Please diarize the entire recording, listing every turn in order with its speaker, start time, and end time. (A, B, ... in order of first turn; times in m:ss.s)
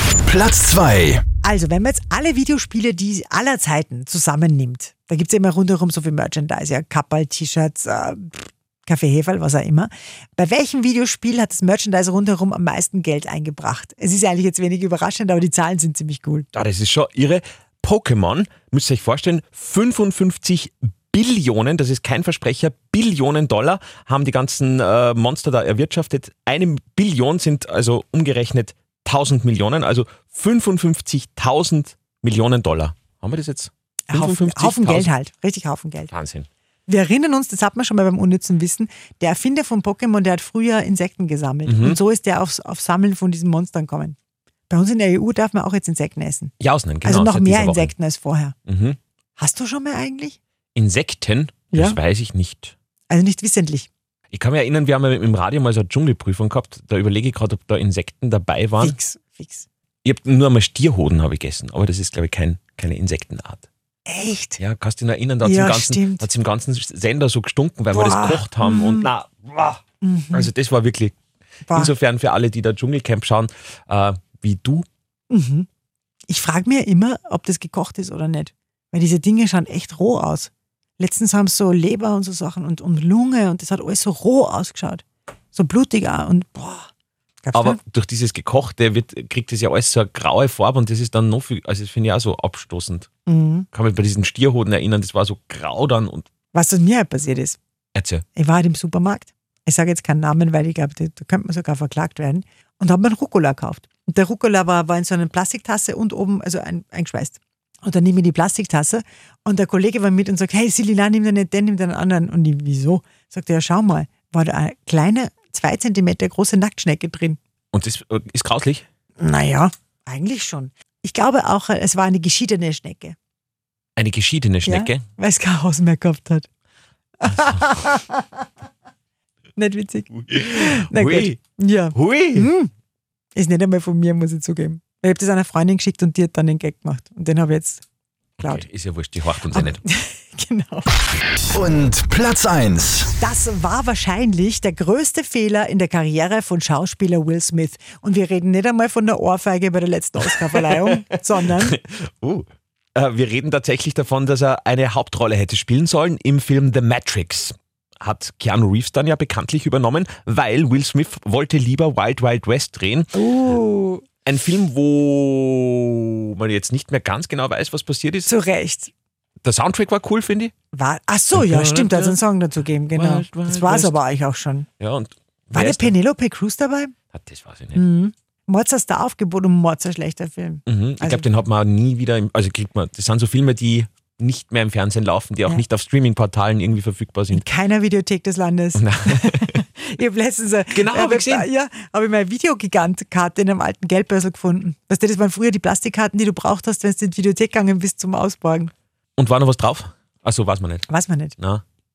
0:00.2-0:01.2 A
0:01.4-0:16.5 B
0:16.5-0:35.1 C
0:34.1-0:36.1 B
0:36.1-0:36.5 C
0:36.9-0:44.2 B
0:41.7-0:42.0 C
0:44.7-0:46.5 B
0:46.6-0:47.9 C
0:47.0-0:48.6 B
0:48.7-0:49.0 C
0:49.4-0:50.4 B
0:50.8-0:52.7 C
0:51.7-0:52.0 B
0:53.1-0:53.9 B
0:54.3-0:59.0 C
0:58.8-0:59.7 B
1:00.0-1:03.7 C
1:04.1-1:04.6 B
1:04.6-1:09.8 C
1:05.4-1:06.3 B
1:07.9-1:09.1 B
1:10.0-1:10.5 B
1:10.3-1:11.1 C
1:11.7-1:11.9 B
1:11.7-1:14.9 C
1:15.3-1:15.7 B
1:16.3-1:26.9 B
1:27.4-1:27.8 B
1:27.5-1:33.1 C
1:33.2-1:33.7 B
1:33.7-1:36.3 C
1:36.5-1:37.6 B
1:37.9-1:38.2 C
1:38.4-1:57.4 B
1:57.7-1:58.8 C
1:59.2-2:03.2 B
2:04.0-2:05.0 C
2:04.6-2:06.5 B
2:07.2-2:08.4 B
2:09.6-2:12.7 B
2:10.3-2:11.4 C
2:11.9-2:12.5 C
2:13.4-2:17.8 B
2:18.4-2:19.8 C
2:19.5-2:20.9 B
2:21.5-2:23.1 A
2:23.2-2:31.8 B
2:30.6-2:31.0 C
2:31.5-2:43.1 C
2:43.1-2:44.0 B
2:44.2-2:48.3 C
2:48.2-2:48.9 B
2:49.4-2:50.5 C
2:50.7-2:54.7 B
2:51.3-2:52.2 C
2:52.9-2:54.0 C
2:54.8-2:55.9 C
2:55.5-2:56.9 B
2:57.1-2:57.8 C
2:57.7-3:01.3 B
3:00.7-3:07.4 C
3:07.3-3:18.7 B
3:08.8-3:09.6 C
3:10.7-3:11.5 C
3:19.2-3:20.9 C
3:20.9-3:21.4 B
3:21.4-3:21.6 C